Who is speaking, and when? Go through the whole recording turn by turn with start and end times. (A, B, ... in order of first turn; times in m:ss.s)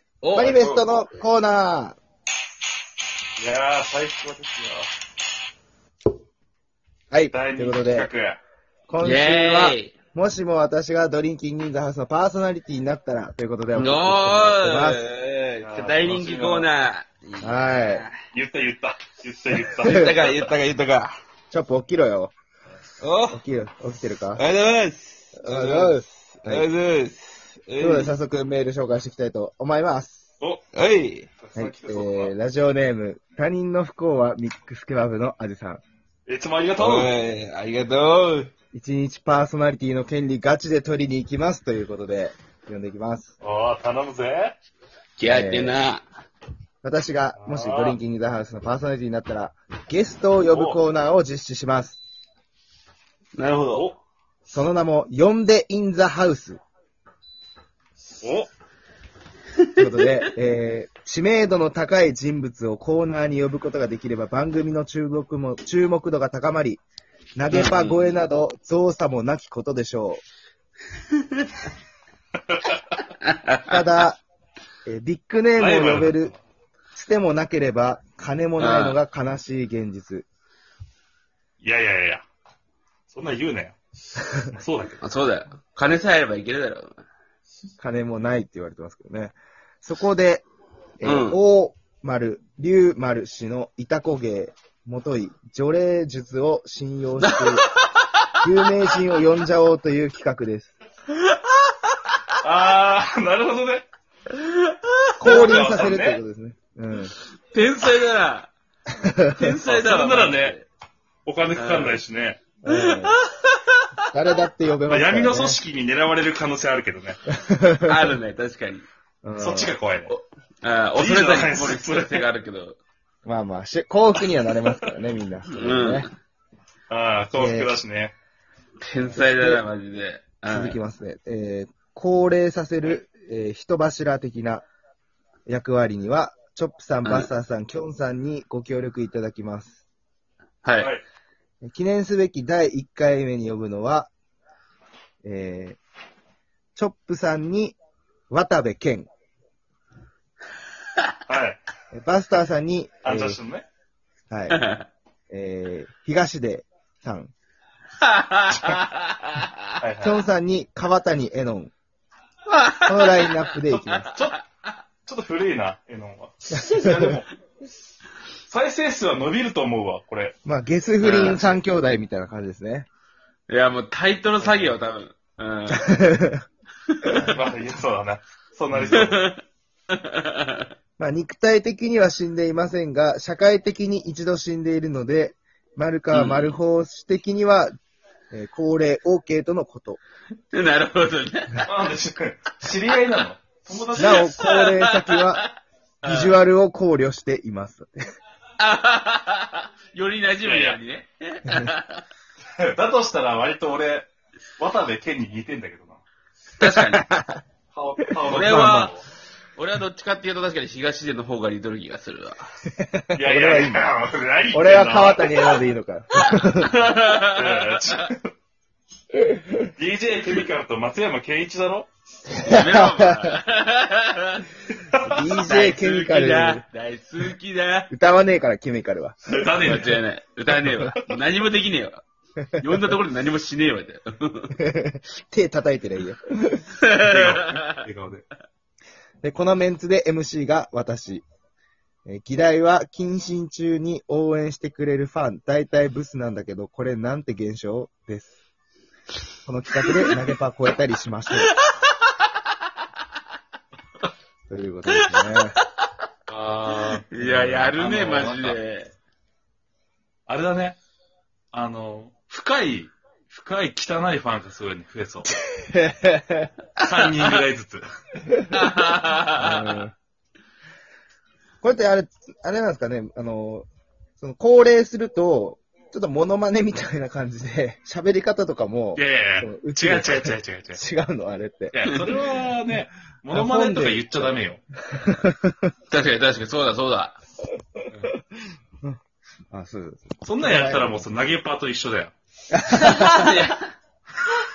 0:00.2-0:00.9 A
0:00.3-0:02.0 B
0:03.4-0:04.9 C
0:07.1-0:08.1 B
0:07.3-0:08.4 C
0:08.9-0:15.0 B
0:09.0-0:09.9 A
0:13.7-0:18.1 A
0:15.6-0:16.7 C
0:17.4-0:18.1 B
0:18.3-0:20.5 C
0:19.7-0:21.1 A
0:21.5-0:22.3 B
0:23.0-0:23.4 A
0:23.3-0:24.4 B
0:24.4-0:28.1 A
0:25.4-0:26.7 B
0:27.8-0:30.2 B
0:30.7-0:31.3 A
0:31.4-0:32.3 C
0:31.5-0:35.8 B
0:36.2-0:37.1 C
0:36.8-0:38.5 A
0:38.7-0:43.3 B
0:43.4-0:44.6 C
0:45.2-0:46.0 A
0:45.2-0:45.8 B
0:46.8-0:52.0 B
0:47.4-0:48.0 C
0:50.4-0:50.8 C
0:53.4-0:53.8 A
0:53.7-0:54.0 C
0:54.5-0:56.6 B
0:58.2-0:58.5 C
0:59.8-1:06.8 B
1:07.4-1:10.2 B
1:07.5-1:08.1 A
1:12.5-1:12.8 C
1:13.2-1:13.6 A
1:13.6-1:14.2 B
1:14.8-1:16.3 B
1:15.6-1:16.3 C
1:16.9-1:20.2 B
1:18.6-1:19.0 A
1:21.6-1:22.2 C
1:23.1-1:23.8 C
1:24.6-1:25.0 C
1:25.0-1:27.0 A
1:27.8-1:30.5 B
1:31.0-1:37.7 B
1:31.0-1:31.4 A
1:37.2-1:37.5 A
1:38.4-1:40.8 B
1:41.3-1:41.9 A
1:42.4-1:43.8 C
1:44.3-1:45.6 A
1:45.2-1:47.2 B
1:45.2-1:46.2 C
1:47.5-1:48.5 A
1:49.0-1:49.5 B
1:49.2-1:50.7 A
1:49.6-1:50.6 C
1:51.2-1:52.4 C
1:51.5-1:52.0 A
1:52.6-1:53.2 B
1:52.9-1:53.8 A
1:54.1-1:55.6 B
1:54.9-1:57.2 C
1:57.4-1:57.9 B
1:57.8-1:58.9 A
1:59.2-1:59.7 B
1:59.4-2:00.1 C
2:00.1-2:02.8 A
2:00.9-2:02.3 C
2:03.2-2:06.1 B
2:05.5-2:06.1 A
2:06.9-2:08.1 C
2:07.3-2:07.7 B
2:08.8-2:10.8 A
2:09.1-2:09.6 B
2:10.4-2:14.7 B
2:15.5-2:19.8 B
2:20.6-2:20.9 A
2:20.8-2:21.0 C
2:21.6-2:24.1 B
2:25.2-2:25.8 B
2:26.7-2:27.8 B
2:28.3-2:29.1 B
2:31.2-2:31.6 C
2:31.9-2:33.4 B
2:33.0-2:33.6 C
2:34.3-2:34.6 B
2:34.5-2:34.8 A
2:35.3-2:37.3 B
2:38.0-2:39.5 A
2:38.5-2:38.8 B
2:39.8-2:40.2 C
2:40.0-2:41.7 B
2:42.5-2:43.3 A
2:42.8-2:44.1 B
2:43.7-2:44.5 C
2:45.0-2:47.2 C
2:46.7-2:47.0 B
2:46.7-2:47.2 A
2:48.5-2:50.4 C
2:50.4-2:52.9 B
2:51.0-2:51.6 A
2:53.5-2:55.9 A
2:54.4-2:54.8 C
2:55.7-2:56.4 B
2:57.0-2:57.3 B
2:57.2-2:59.4 C
2:58.9-2:59.4 A
2:59.9-3:00.6 A
3:01.0-3:07.7 B
3:06.1-3:06.5 A
3:08.3-3:10.0 B
3:10.5-3:11.7 A
3:11.6-3:14.5 C
3:14.0-3:15.4 B
3:14.0-3:15.4 A
3:16.0-3:16.3 C
3:16.0-3:18.0 B
3:18.6-3:22.0 A
3:20.4-3:20.8 C
3:22.6-3:26.0 C
3:26.6-3:27.0 A
3:26.6-3:27.4 B
3:27.7-3:29.0 C
3:28.3-3:28.8 B
3:28.3-3:28.9 A
3:29.6-3:32.5 A
3:32.8-3:33.8 B
3:33.1-3:35.5 C
3:34.5-3:36.8 B
3:36.7-3:37.6 A
3:36.9-3:38.3 C
3:39.3-3:39.6 B
3:39.6-3:41.9 C
3:42.4-3:43.4 B
3:42.4-3:44.5 A
3:44.8-3:45.3 C
3:45.0-3:46.6 B
3:45.3-3:47.9 A
3:47.9-3:49.8 B
3:49.3-3:50.0 C
3:49.6-3:52.0 A
3:52.6-3:54.5 A
3:54.5-3:56.7 B
3:56.8-3:57.6 A
3:57.0-3:58.3 C
3:59.2-4:01.2 B
4:02.0-4:08.4 B
4:09.4-4:11.6 B
4:14.5-4:15.6 B
4:16.3-4:18.6 C
4:16.7-4:18.9 A
4:20.3-4:20.8 C
4:21.5-4:25.3 C
4:25.5-4:26.5 B
4:26.8-4:27.8 C
4:28.5-4:29.8 A
4:29.2-4:29.9 B
4:31.6-4:33.7 B
4:34.2-4:41.9 B
4:38.9-4:40.8 C
4:41.7-4:44.6 C
4:43.3-4:44.4 B
4:44.9-4:45.6 B
4:45.9-4:47.2 A
4:49.5-4:51.1 B
4:50.2-4:52.1 C
4:52.5-4:53.4 B
4:52.8-4:53.6 A